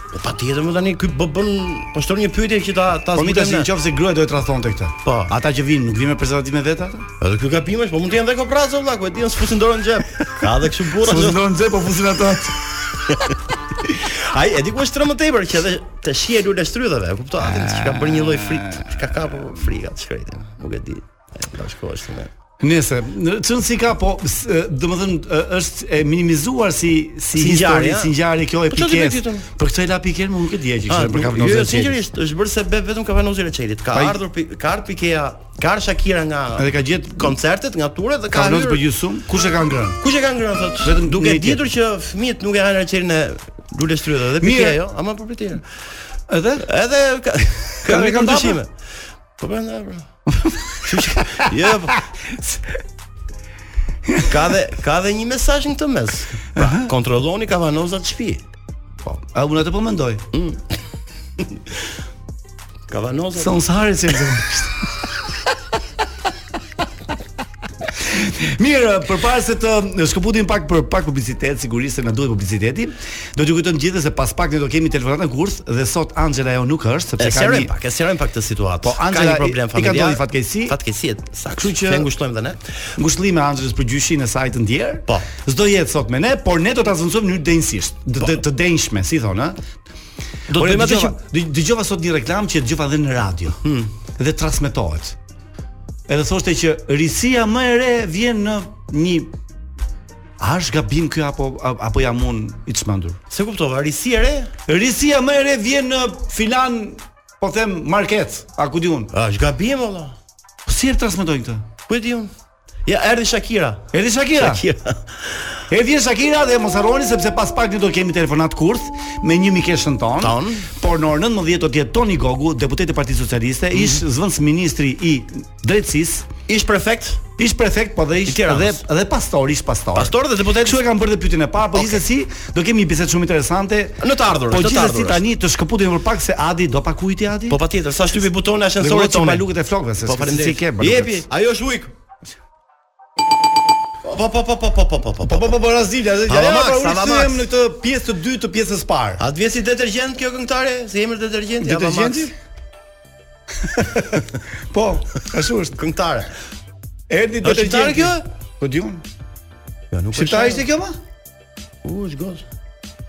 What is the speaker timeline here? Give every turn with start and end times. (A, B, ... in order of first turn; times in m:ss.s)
0:00.1-0:03.7 A
0:03.1-0:07.0 B
0:05.0-0:05.3 A
0:07.2-0:11.4 A
0:11.0-0:13.0 B
0:13.9-0:22.3 A
0:17.4-0:19.5 B
0:22.6-0:32.0 B
0:27.3-0:28.1 A
0:28.7-0:29.4 A
0:30.9-0:38.8 A
0:33.9-0:34.2 B
0:36.6-0:37.4 B
0:38.3-0:40.0 B
0:40.0-0:45.6 A
0:40.8-0:41.6 B
0:44.4-0:44.8 B
0:46.3-0:46.7 B
0:46.6-0:48.7 A
0:47.8-0:48.6 B
0:49.4-0:50.1 A
0:50.3-0:52.8 B
0:50.8-0:52.0 A
0:54.2-0:58.4 A
0:56.6-0:56.9 B
0:59.0-1:00.2 B
1:00.3-1:00.6 A
1:02.9-1:03.6 A
1:03.4-1:05.3 B
1:08.0-1:17.7 B
1:17.2-1:22.6 A
1:18.8-1:20.8 B
1:21.5-1:22.1 B
1:23.0-1:29.6 B
1:30.5-1:31.2 A
1:30.5-1:33.6 B
1:33.6-1:33.9 A
1:34.2-1:35.2 B
1:36.1-1:39.3 B
1:40.4-1:43.2 B
1:43.3-1:44.5 A
1:44.6-1:49.1 B
1:49.1-1:50.2 A
1:50.6-1:51.7 B
1:51.9-1:52.3 A
1:52.8-1:55.6 A
1:53.9-1:54.6 B
1:55.7-2:06.3 B
2:00.2-2:00.7 A
2:03.7-2:04.0 A
2:06.5-2:07.2 A
2:07.4-2:17.6 B
2:08.3-2:08.8 A
2:10.0-2:10.8 A
2:11.7-2:12.0 A
2:14.0-2:15.2 A
2:17.5-2:19.4 A
2:18.8-2:21.2 B
2:20.0-2:21.9 A
2:24.0-2:25.5 A
2:25.2-2:29.2 B
2:26.3-2:27.4 A
2:29.2-2:32.3 A
2:31.6-2:32.3 B
2:33.6-2:35.8 B
2:35.8-2:36.3 A
2:37.1-2:39.0 B
2:37.4-2:38.2 A
2:39.9-2:40.6 A
2:40.1-2:41.0 B
2:41.8-2:42.4 A